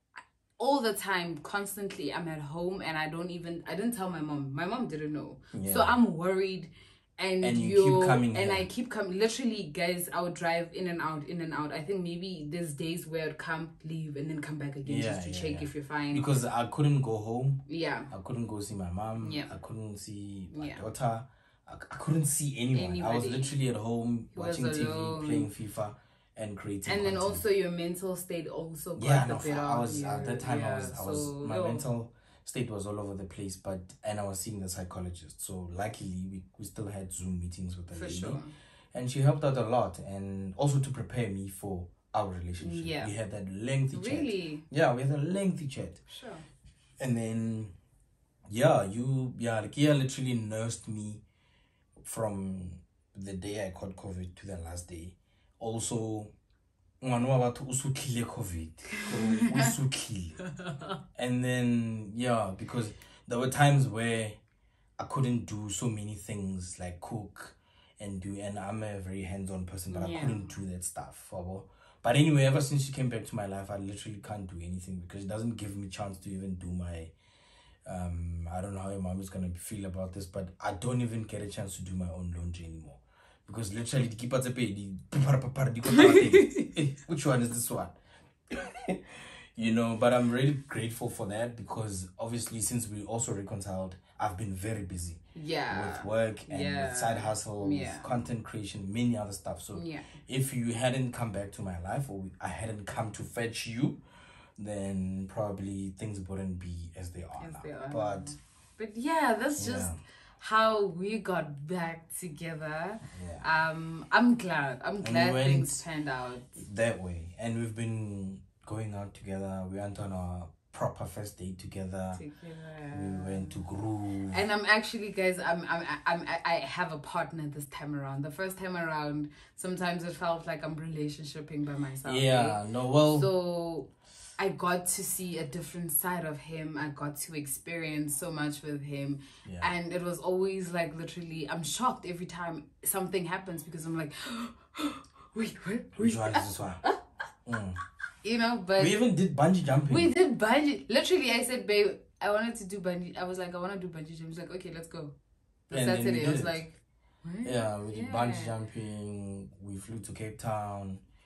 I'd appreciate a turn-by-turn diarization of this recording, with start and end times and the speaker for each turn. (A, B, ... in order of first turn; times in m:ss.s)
0:00.6-0:16.3 A
0:05.5-0:06.0 B
0:07.4-0:08.7 B
0:14.8-0:27.4 B
0:17.7-0:18.1 A
0:19.2-0:19.6 A
0:20.5-0:20.8 A
0:22.7-0:23.5 A
0:24.3-0:25.5 A
0:26.9-0:31.9 A
0:29.0-0:38.4 B
0:37.9-0:38.5 A
0:38.9-0:46.0 B
0:42.6-0:43.1 A
0:43.9-0:44.6 A
0:46.1-0:46.4 A
0:47.0-0:47.7 B
0:48.5-0:51.2 B
0:52.0-0:56.3 B
0:57.0-1:00.4 B
0:59.0-0:59.7 A
1:01.2-1:04.4 B
1:05.0-1:17.1 B
1:09.9-1:10.5 A
1:17.8-1:28.0 B
1:25.9-1:26.7 A
1:28.5-1:44.0 B
1:35.4-1:38.1 A
1:39.7-1:40.1 A
1:44.6-1:48.4 B
1:47.4-1:56.5 A
1:49.6-1:50.0 B
1:53.1-1:53.4 B
1:55.0-1:55.8 B
1:56.6-2:02.2 B
2:02.1-2:03.6 A
2:02.9-2:04.4 B
2:04.3-2:27.0 A
2:12.0-2:13.3 B
2:19.4-2:19.7 B
2:26.0-2:26.8 B
2:27.5-2:27.8 B
2:28.2-2:29.0 A
2:28.8-2:30.1 B
2:29.9-2:35.1 A
2:35.7-2:38.5 A
2:35.7-2:36.7 B
2:37.4-2:41.0 B